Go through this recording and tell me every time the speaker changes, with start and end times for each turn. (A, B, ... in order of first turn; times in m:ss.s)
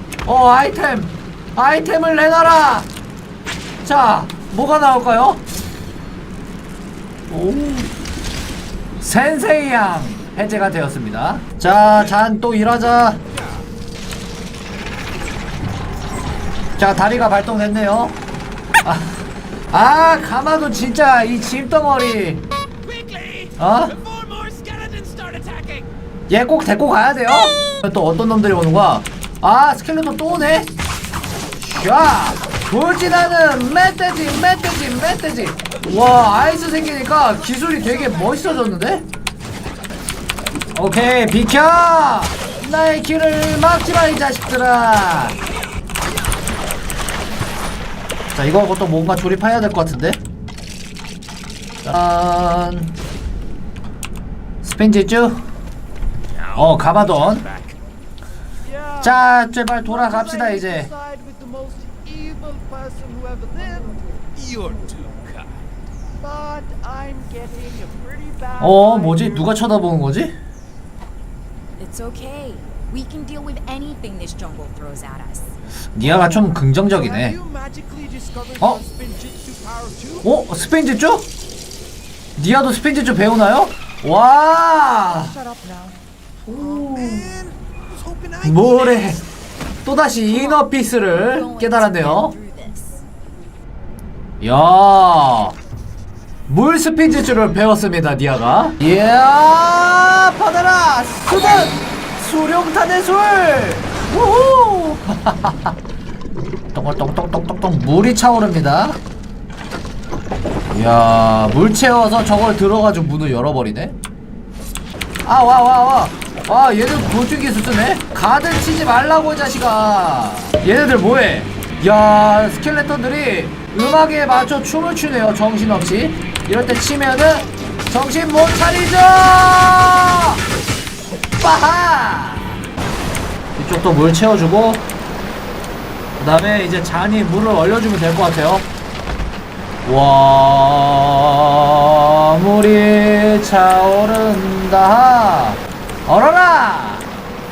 0:00.2-0:02.9 A
0:03.8-0:05.4 A
0:07.3-0:07.9 A
0:09.0-0:13.2 A
0:16.8-0:18.2 A
0:18.8-0:22.4 A
0:22.8-0:25.9 B
0:23.6-0:24.0 A
0:26.3-0:30.7 A
0:31.6-0:39.1 A
0:40.7-0:45.4 A
0:48.3-0:50.2 A
0:51.8-0:52.9 A
0:54.6-0:55.4 A
0:56.5-0:57.5 A
0:57.3-0:57.8 B
0:58.6-0:59.2 C
0:59.0-1:00.9 A
0:59.8-1:04.0 C
1:04.4-1:05.5 B
1:06.2-1:09.5 C
1:08.6-1:10.4 A
1:11.8-1:15.6 D
1:16.0-1:17.4 A
1:16.9-1:20.3 C
1:20.2-1:21.3 A
1:22.4-1:25.4 A
1:25.0-1:26.0 C
1:26.5-1:27.4 A
1:26.5-1:29.0 C
1:28.4-1:29.2 A
1:29.8-1:32.4 A
1:30.3-1:30.6 D
1:31.2-1:33.0 D
1:34.4-1:35.6 A
1:36.5-1:45.8 A
1:46.7-1:49.0 A
1:50.7-1:54.0 A
1:55.2-2:10.4 A
2:11.4-2:12.6 A
2:13.6-2:14.8 A
2:16.2-2:18.7 A
2:19.8-2:27.1 A